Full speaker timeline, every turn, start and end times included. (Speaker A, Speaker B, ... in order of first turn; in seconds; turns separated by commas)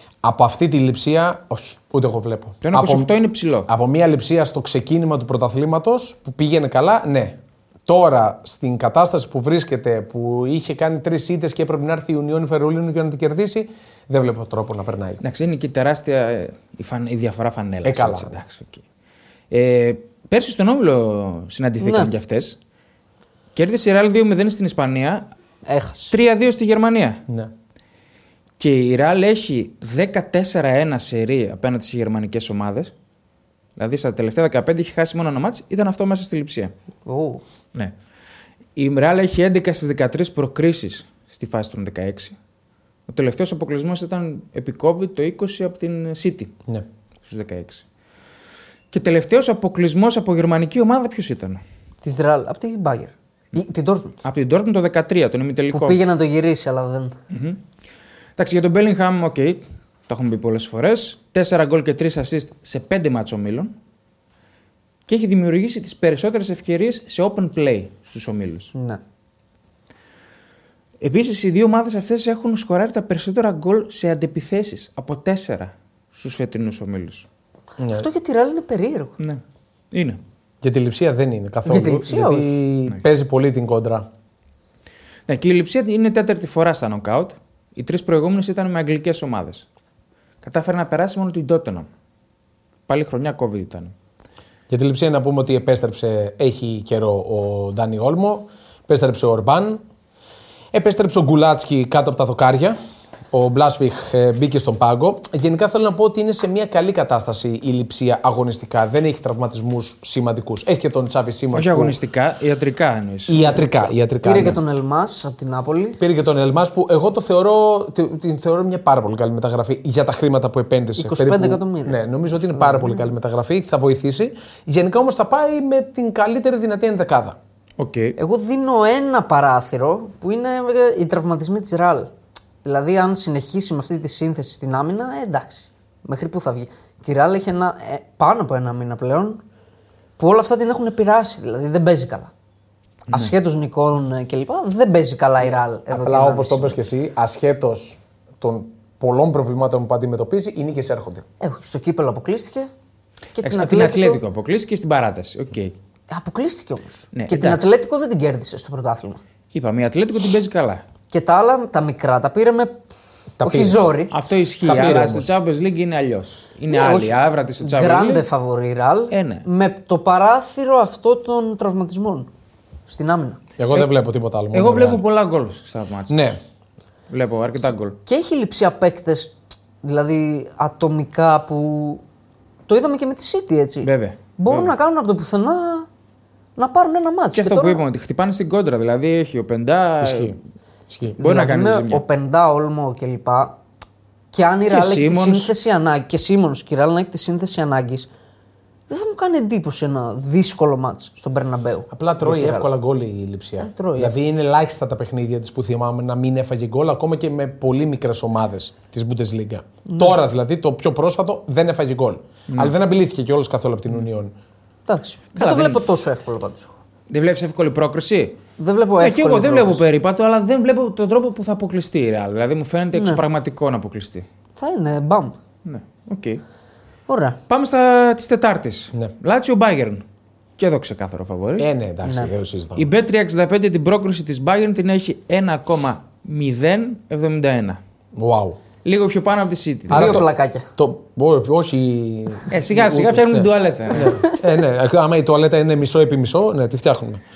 Speaker A: 0.2-3.1, Speaker B: 2.6-3.7, Speaker A: 3.7-15.2, Speaker B: 15.2-18.8, Speaker A: 17.8-18.4, Speaker B: 19.5-22.6, Speaker C: 21.8-22.1, Speaker B: 23.5-25.3, Speaker C: 25.6-26.1, Speaker B: 26.1-27.2, Speaker B: 28.6-32.9, Speaker B: 33.8-36.7, Speaker C: 37.0-37.4, Speaker B: 38.8-42.4, Speaker B: 43.1-46.5, Speaker B: 47.2-47.8, Speaker B: 48.9-51.6, Speaker C: 52.0-54.2, Speaker B: 54.2-56.0, Speaker C: 55.7-57.2, Speaker B: 57.3-57.6, Speaker B: 58.4-63.7, Speaker B: 65.1-68.7, Speaker C: 68.7-69.0, Speaker B: 71.0-77.2, Speaker A: 77.8-78.1, Speaker C: 77.9-79.1, Speaker B: 79.9-80.2, Speaker A: 80.6-84.1, Speaker C: 81.6-82.5, Speaker B: 85.3-89.7, Speaker B: 90.4-91.9, Speaker B: 92.9-93.9, Speaker A: 94.7-99.8, Speaker A: 100.7-102.8, Speaker A: 103.3-111.9, Speaker B: 111.5-113.5, Speaker A: 113.3-114.6, Speaker C: 114.2-116.0, Speaker A: 116.0-127.4, Speaker C: 121.0-122.0, Speaker C: 122.6-122.9, Speaker B: 127.8-128.2, Speaker C: 128.2-132.1, Speaker C: 132.6-139.4, Speaker C: 140.2-142.3, Speaker C: 143.1-146.7, Speaker A: 145.9-151.2, Speaker C: 151.4-152.7, Speaker C: 153.3-154.2, Speaker B: 153.4-155.8, Speaker C: 156.1-159.2, Speaker B: 157.1-157.7, Speaker B: 159.5-160.8, Speaker C: 161.1-162.8, Speaker C: 163.4-164.1, Speaker A: 163.4-163.8, Speaker B: 164.1-168.2, Speaker A: 164.6-165.3, Speaker C: 166.7-172.3, Speaker B: 169.1-169.4, Speaker C: 172.9-173.4, Speaker A: 173.6-175.0, Speaker B: 174.5-176.4, Speaker A: 176.1-176.4, Speaker B: 177.1-178.0, Speaker C: 178.1-182.0, Speaker C: 182.7-185.9, Speaker B: 183.8-184.7, Speaker C: 186.6-187.8, Speaker B: 187.3-190.4, Speaker A: 190.0-190.3, Speaker A: 190.9-191.2, Speaker B: 191.2-192.0, Speaker C: 191.2-193.6, Speaker C: 194.3-198.1, Speaker B: 194.7-195.5, Speaker C: 198.9-202.7, Speaker A: 201.9-214.3, Speaker C: 203.6-204.1, Speaker C: 209.9-210.1, Speaker B: 212.5-212.7, Speaker C: 214.9-216.7, Speaker B: 215.3-215.8, Speaker B: 217.1-218.4, Speaker C: 218.6-219.8, Speaker B: 219.0-224.2, Speaker C: 222.9-223.2, Speaker C: 224.6-225.3, Speaker B: 225.6-226.4, Speaker C: 227.1-227.4, Speaker B: 227.5-230.0, Speaker B: 230.6-231.7, Speaker A: 231.6-232.9, Speaker C: 232.0-232.3, Speaker B: 232.8-237.8, Speaker A: 238.1-238.6, Speaker B: 238.8-240.2, Speaker A: 239.9-247.2, Speaker C: 239.9-240.7, Speaker B: 242.5-244.2